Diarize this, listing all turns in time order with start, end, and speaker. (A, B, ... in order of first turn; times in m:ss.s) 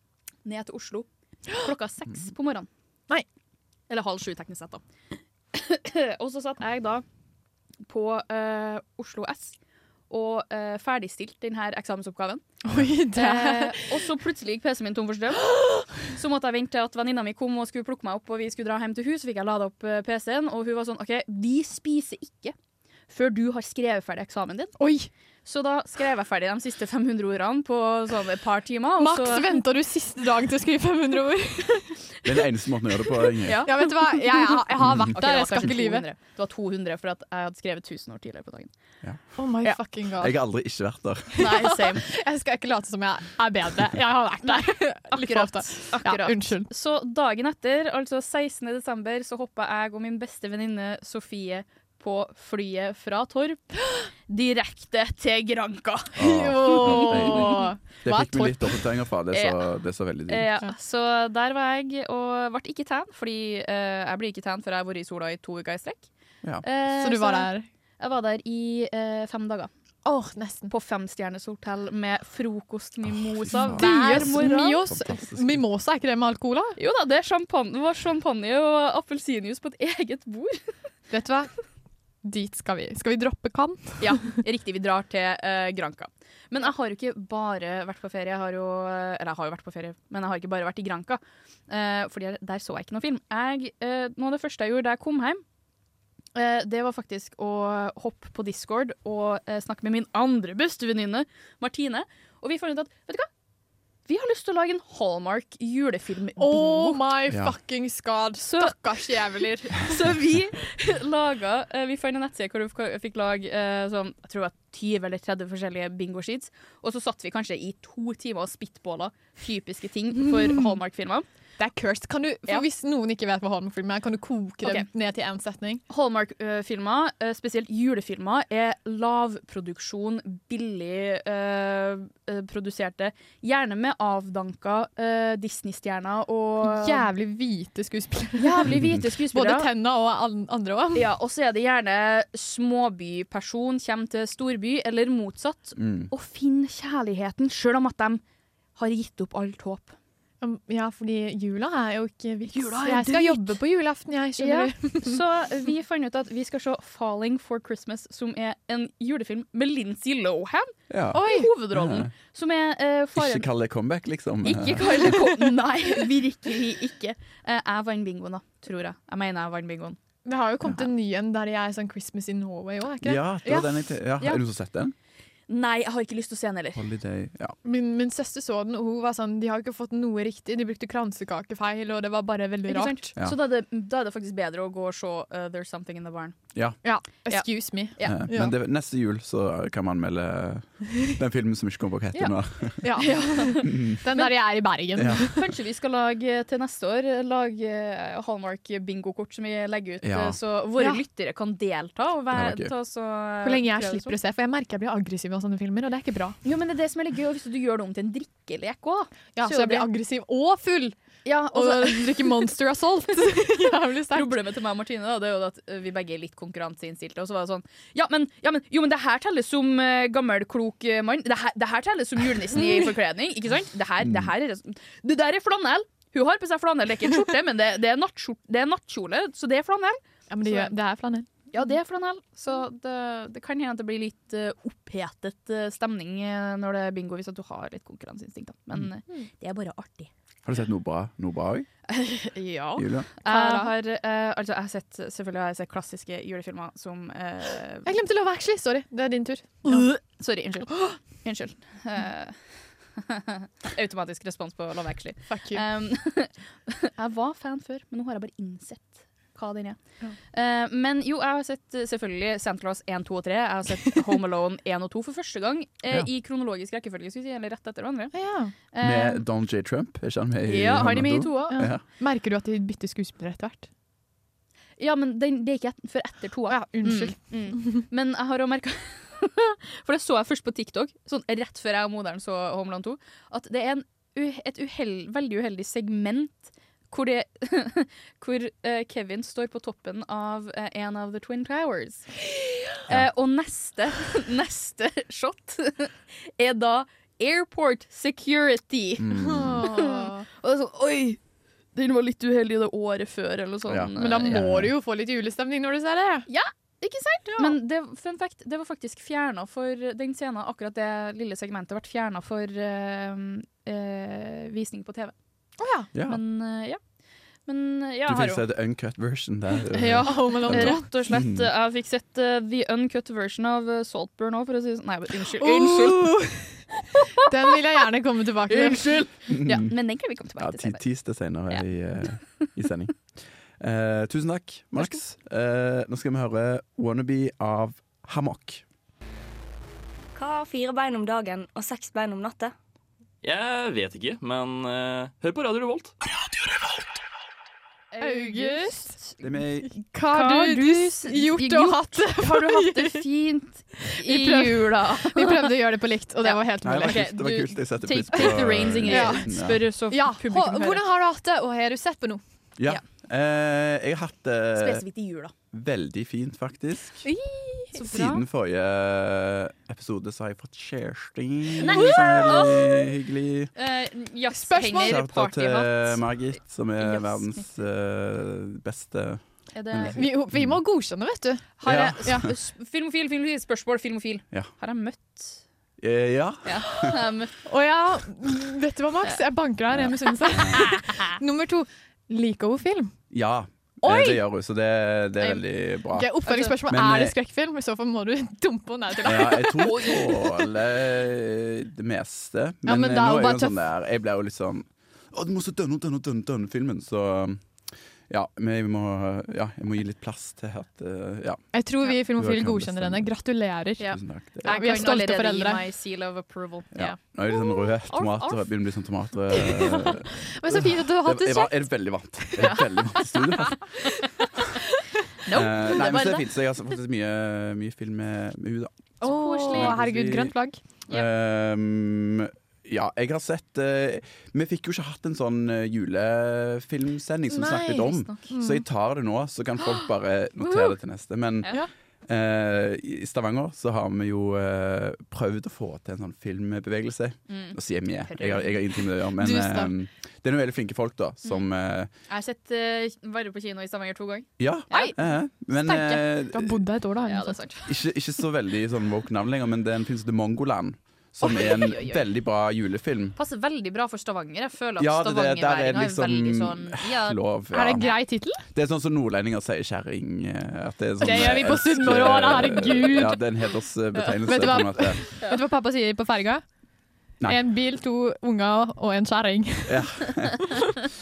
0:00.4-0:02.7 A
0:03.9-0:04.8 A
0:05.5-0:07.0 A
0:07.8-0:09.6 A
0:10.1-0:12.4 A
0:12.6-0:14.0 B
0:13.2-0:22.6 A
0:23.1-0:24.8 A
0:24.8-0:25.1 B
0:25.4-0:29.6 A
0:29.0-0:32.0 B
0:32.2-0:33.7 C
0:33.4-0:38.7 A
0:33.6-0:36.0 B
0:34.8-0:35.2 C
0:39.4-0:40.4 B
0:40.2-0:41.5 C
0:41.3-0:46.7 B
0:41.4-0:42.0 A
0:44.5-0:57.7 A
0:56.2-1:00.5 C
0:56.2-0:58.8 B
0:59.3-0:59.6 A
1:00.3-1:06.1 A
1:06.6-1:09.7 A
1:06.9-1:07.7 B
1:10.0-1:10.7 B
1:10.7-1:14.9 A
1:13.1-1:15.6 C
1:13.5-1:16.8 B
1:16.8-1:20.6 A
1:21.1-1:21.6 B
1:22.2-1:24.3 B
1:24.0-1:35.4 A
1:36.4-1:43.3 A
1:44.1-1:47.0 A
1:46.4-1:49.9 B
1:47.3-1:47.5 C
1:48.5-2:01.3 A
2:00.2-2:00.8 B
2:01.6-2:05.8 B
2:05.9-2:17.1 A
2:16.6-2:21.1 B
2:18.4-2:19.7 A
2:21.0-2:28.2 A
2:25.8-2:26.1 C
2:28.8-2:30.0 A
2:30.4-2:35.2 B
2:32.5-2:33.6 A
2:34.4-2:43.5 A
2:40.9-2:42.1 C
2:41.1-2:41.5 B
2:43.2-2:45.2 C
2:44.4-2:50.0 A
2:50.3-2:53.7 B
2:53.0-2:54.9 C
2:55.5-2:56.8 A
2:56.8-2:57.6 C
2:57.6-3:03.1 B
3:02.7-3:06.5 A
3:06.8-3:08.5 B
3:07.3-3:08.2 A
3:08.0-3:13.0 C
3:12.8-3:15.4 B
3:13.0-3:14.3 A
3:13.6-3:14.0 C
3:15.0-3:15.2 C
3:15.2-3:24.2 A
3:20.0-3:20.4 C
3:22.3-3:22.7 C
3:23.4-3:26.4 B
3:26.4-3:29.9 A
3:29.4-3:31.0 B
3:31.2-3:32.5 A
3:31.5-3:34.4 B
3:34.1-3:50.7 A
3:44.0-3:44.3 C
3:50.3-3:51.3 B
3:51.5-4:00.1 A
4:00.5-4:01.7 C
4:01.9-4:07.9 A
4:02.8-4:03.1 C
4:03.2-4:03.7 B
4:07.8-4:09.9 B
4:09.7-4:12.4 A
4:13.0-4:19.8 A
4:15.3-4:15.6 B
4:20.3-4:28.1 A
4:28.1-4:28.5 B
4:28.7-4:29.2 A
4:28.8-4:31.8 C
4:30.4-4:31.6 A
4:31.5-4:33.7 B
4:34.8-5:01.2 A
4:36.5-4:37.8 B
4:59.0-4:59.6 C
4:59.2-5:00.2 B
5:01.8-5:04.4 A
5:03.7-5:04.7 C
5:04.0-5:06.3 B
5:06.3-5:15.1 A
5:07.3-5:07.6 B
5:15.6-5:15.9 B
5:15.9-5:16.2 C
5:16.1-5:16.8 A
5:17.5-5:18.4 A
5:18.1-5:21.5 C
5:19.7-5:21.0 B
5:19.8-5:26.2 A
5:25.4-5:26.6 B
5:27.2-5:29.0 B
5:28.7-5:30.8 A
5:29.3-5:29.8 C
5:30.4-5:32.9 C
5:32.2-5:32.5 A
5:33.6-5:38.6 C
5:40.2-5:42.5 D
5:43.2-5:45.9 E
5:47.9-5:49.2 A
5:48.0-5:48.9 B
5:49.2-5:49.7 C
5:49.7-5:53.0 B
5:50.1-5:55.5 A
5:53.9-5:57.4 B
5:56.2-6:00.8 A
5:56.6-5:59.6 C
5:58.8-5:59.3 B
5:59.9-6:02.2 B
6:02.6-6:04.8 C
6:04.6-6:05.3 A
6:05.5-6:07.1 C
6:07.0-6:07.8 B
6:07.8-6:08.2 A
6:07.8-6:13.5 C
6:11.6-6:12.9 A
6:11.6-6:12.4 B
6:13.6-6:16.0 A
6:14.3-6:15.0 B
6:14.8-6:20.6 C
6:16.8-6:17.6 A
6:19.5-6:20.0 A
6:20.0-6:22.3 B
6:21.6-6:25.4 A
6:21.6-6:22.3 C
6:25.8-6:27.0 C
6:26.4-6:27.3 A
6:27.4-6:33.0 B
6:29.7-6:30.7 C
6:30.7-6:31.0 A
6:33.1-6:37.2 C
6:33.8-6:34.2 B
6:35.9-6:40.3 B
6:36.3-6:36.6 A
6:39.0-6:47.4 C
6:39.4-6:40.1 A
6:42.7-6:43.6 B
6:48.1-6:51.5 C
6:51.5-6:55.6 B
6:52.0-6:53.1 C
6:53.8-6:57.1 A
6:53.9-6:54.5 C
6:56.8-7:03.7 C
6:57.9-6:58.5 A
6:59.3-7:03.9 B
7:02.4-7:04.2 A
7:05.3-7:06.3 A
7:05.3-7:08.7 C
7:09.0-7:10.6 B
7:09.0-7:09.8 A
7:09.5-7:10.3 C
7:10.9-7:21.5 C
7:17.3-7:18.6 B
7:17.7-7:18.3 A
7:22.1-7:31.9 C
7:27.3-7:28.6 A
7:29.2-7:29.7 B
7:32.1-7:34.9 A
7:34.4-7:36.6 C
7:34.7-7:35.0 B
7:35.6-7:37.4 B
7:37.1-7:37.7 A
7:37.7-7:43.2 C
7:41.2-7:42.0 A
7:43.2-7:47.2 A
7:44.8-7:47.9 C
7:47.5-7:48.4 B
7:48.5-7:55.0 C
7:51.0-7:53.2 B
7:54.2-7:56.4 B
7:57.2-8:00.6 B
7:59.7-8:00.6 C